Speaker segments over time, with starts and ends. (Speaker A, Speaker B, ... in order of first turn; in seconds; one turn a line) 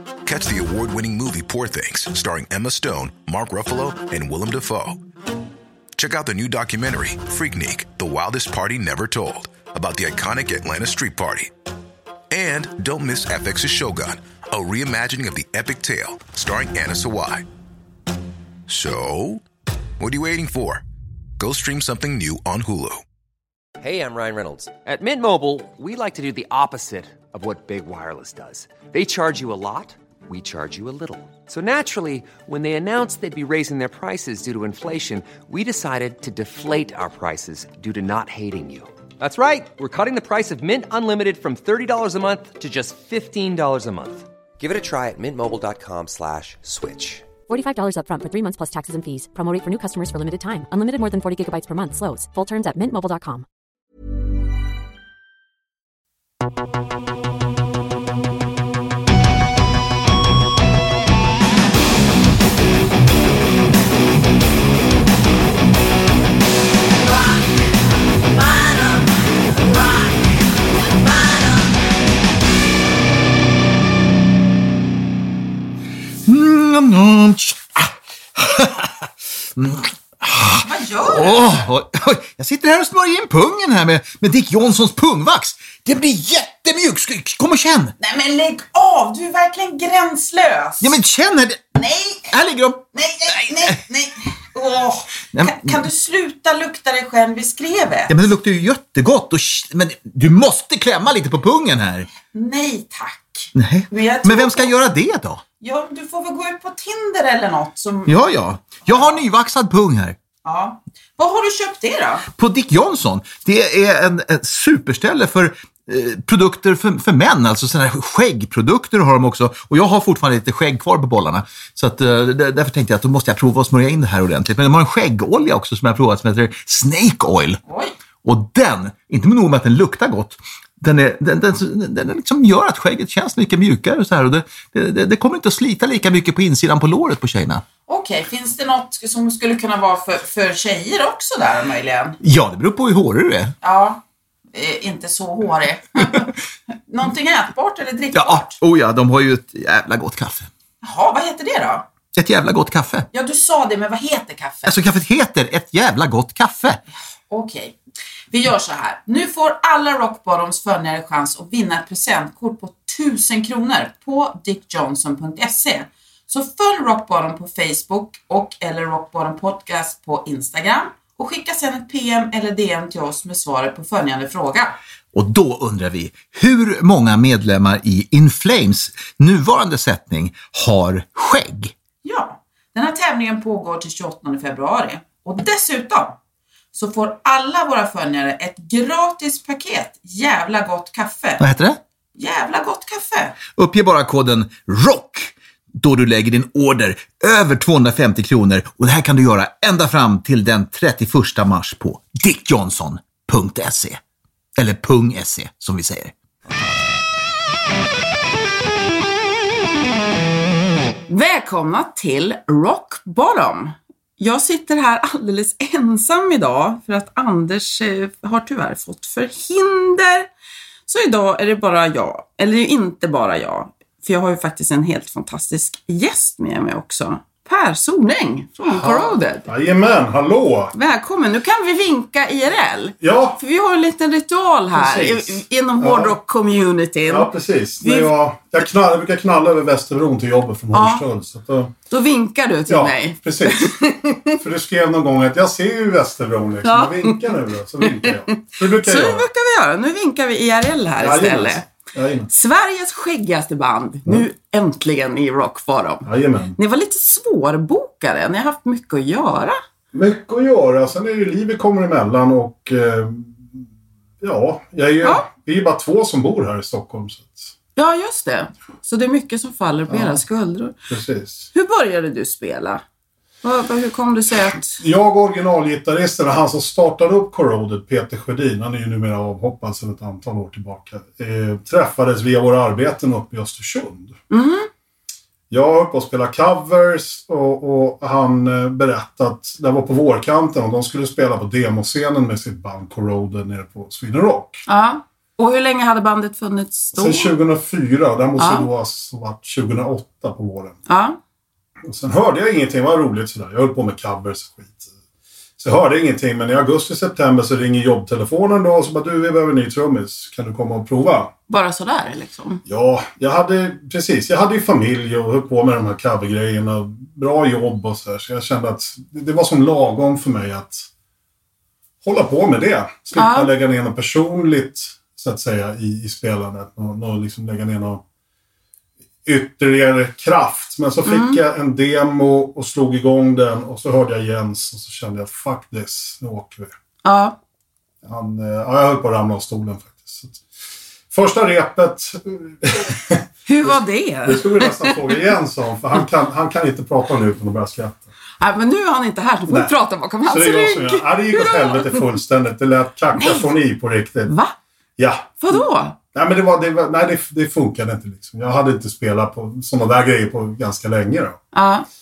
Speaker A: 0.2-5.0
Speaker A: 6.0-11.5
Speaker A: 12.3-17.4
Speaker A: 18.7-19.4
Speaker A: 20.0-20.8
Speaker A: 21.4-23.0
Speaker B: 23.8-47.3
Speaker C: 47.5-53.5
Speaker D: 76.3-87.9
Speaker E: 80.6-81.5
Speaker E: 88.0-91.0
Speaker D: 90.8-91.7
Speaker E: 91.7-92.3
Speaker D: 92.3-93.8
Speaker E: 92.9-98.2
Speaker D: 95.3-95.8
Speaker D: 98.1-102.1
Speaker E: 102.2-104.8
Speaker D: 103.5-105.4
Speaker E: 105.6-108.2
Speaker D: 108.0-110.2
Speaker E: 108.8-109.2
Speaker E: 110.4-112.3
Speaker D: 112.3-127.6
Speaker E: 127.7-127.9
Speaker D: 128.2-137.6
Speaker E: 137.9-142.2
Speaker D: 142.2-143.5
Speaker E: 143.6-144.0
Speaker E: 144.5-146.3
Speaker E: 146.9-148.6
Speaker D: 148.1-150.5
Speaker E: 150.8-151.9
Speaker D: 152.1-153.1
Speaker E: 153.1-154.8
Speaker D: 154.7-156.8
Speaker E: 157.3-157.8
Speaker E: 158.3-174.8
Speaker D: 175.1-181.7
Speaker E: 182.0-186.2
Speaker E: 186.7-191.4
Speaker D: 191.4-191.8
Speaker E: 192.2-193.4
Speaker D: 193.5-204.0
Speaker D: 204.6-206.1
Speaker E: 211.1-220.3
Speaker E: 220.8-229.5
Speaker F: 228.7-230.7
Speaker E: 230.7-237.3
Speaker F: 233.0-233.4
Speaker F: 234.7-236.2
Speaker F: 237.1-241.8
Speaker E: 237.8-238.1
Speaker E: 240.7-241.0
Speaker E: 241.9-244.4
Speaker F: 242.7-243.7
Speaker F: 244.3-249.2
Speaker E: 246.6-251.6
Speaker F: 251.0-252.3
Speaker E: 252.3-259.6
Speaker F: 256.0-256.6
Speaker F: 259.9-263.6
Speaker F: 264.2-267.5
Speaker E: 267.8-270.8
Speaker F: 269.9-270.2
Speaker F: 270.9-271.5
Speaker E: 271.5-272.8
Speaker E: 273.4-274.8
Speaker F: 274.8-284.2
Speaker E: 284.3-284.7
Speaker F: 285.5-294.6
Speaker E: 294.7-297.3
Speaker F: 296.9-300.8
Speaker E: 298.4-298.7
Speaker E: 300.9-301.2
Speaker F: 301.8-304.9
Speaker F: 305.6-311.3
Speaker E: 311.5-312.6
Speaker F: 312.6-320.9
Speaker F: 322.0-328.0
Speaker E: 323.1-323.5
Speaker F: 329.2-336.7
Speaker E: 331.0-331.4
Speaker E: 337.0-337.4
Speaker F: 338.0-340.4
Speaker F: 341.1-348.1
Speaker E: 343.4-345.2
Speaker E: 348.4-352.1
Speaker F: 349.5-349.7
Speaker F: 350.2-354.3
Speaker E: 353.1-353.5
Speaker E: 354.3-354.6
Speaker F: 355.0-361.4
Speaker E: 355.4-355.9
Speaker E: 361.5-361.9